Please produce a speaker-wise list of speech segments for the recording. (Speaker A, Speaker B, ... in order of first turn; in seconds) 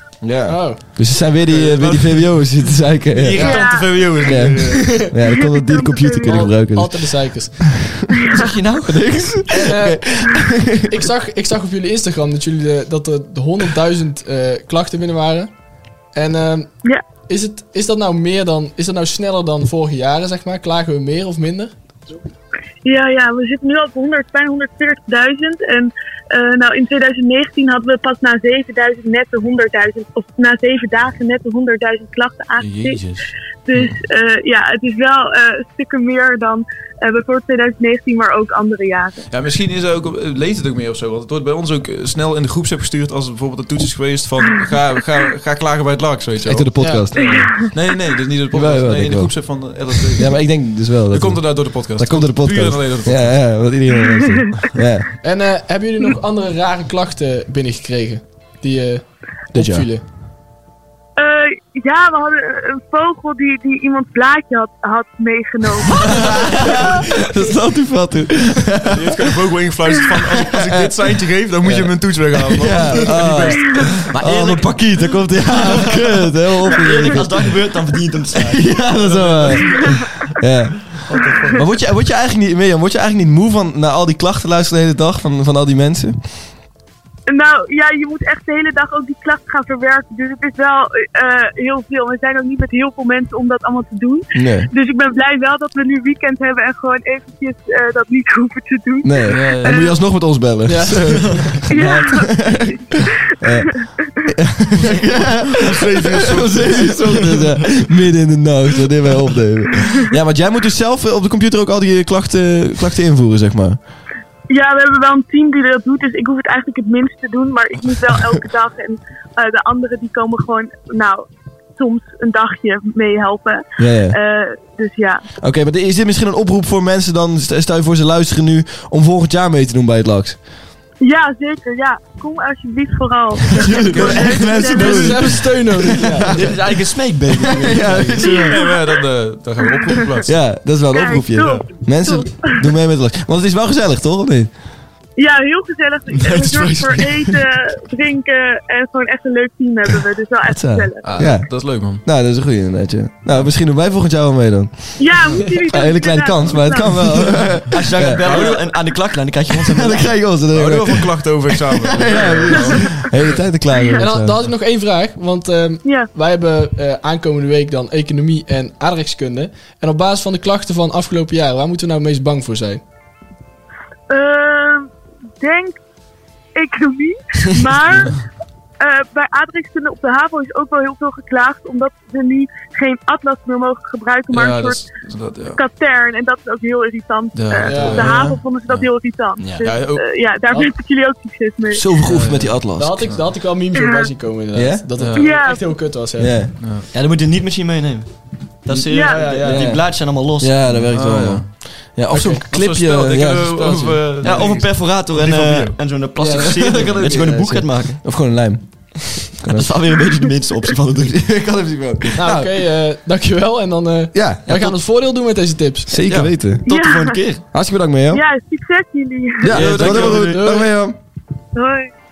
Speaker A: 0.2-3.6, 4.2-8.3, 8.9-11.1, 46.4-47.7, 48.5-49.6, 50.1-55.1, 59.5-59.9, 65.9-69.4, 70.2-70.9, 71.6-77.5, 78.5-86.4, 94.3-94.7, 99.0-113.8, 123.8-124.2, 125.4-130.4, 133.6-136.6, 137.4-138.6, 140.2-144.5, 150.5-158.4, 159.7-164.4, 191.7-193.1, 194.5-194.9, 196.2-196.5, 199.2-204.4, 206.7-209.9, 211.1-212.5, 214.1-214.8, 215.9-216.6, 217.5-218.2, 219.4-221.0
Speaker B: 0.5-0.8, 4.8-5.1, 6.3-7.8, 9.5-10.1, 10.9-15.5, 16.1-21.8, 46.8-47.1, 55.2-60.0, 100.7-101.6, 134.0-136.5, 163.9-172.8, 187.6-188.1, 192.7-196.5, 199.1-199.7, 206.2-207.1, 212.2-216.0, 220.1-220.7
Speaker C: 1.5-2.3, 3.1-4.9, 32.6-34.0, 39.3-50.4, 51.1-53.5, 68.9-74.1, 78.9-80.0, 80.9-81.7, 99.3-99.8, 101.1-101.6, 104.8-107.6, 138.3-140.3, 146.2-147.4, 151.0-152.0, 158.2-158.6, 160.5-163.4, 184.3-185.6, 187.3-188.8, 189.6-190.1, 192.1-193.3, 195.0-195.4, 196.6-196.9, 200.7-201.5, 202.1-205.8, 219.5-220.3
Speaker D: 3.4-4.0, 5.2-6.4, 8.2-8.5, 22.8-33.0, 33.7-39.3, 47.2-47.5, 61.2-67.0, 87.3-100.0, 101.7-102.8, 103.4-104.3, 114.5-125.2, 131.0-135.3, 138.2-139.0, 139.6-140.2, 140.9-142.7, 145.2-151.1, 155.0-157.4, 163.7-164.0, 165.8-166.1, 174.1-175.8, 176.5-178.2, 178.8-184.9, 185.5-192.1, 193.7-194.1, 195.1-195.8, 198.9-199.3, 216.6-217.2, 218.1-219.6, 221.5-221.9
Speaker E: 3.5-4.5, 8.3-9.0, 74.1-75.9, 76.7-78.7, 136.3-138.4, 157.7-160.1, 189.4-189.7, 196.9-198.1, 198.6-200.6, 204.2-208.0, 209.5-211.3, 216.0-217.4, 219.5-220.3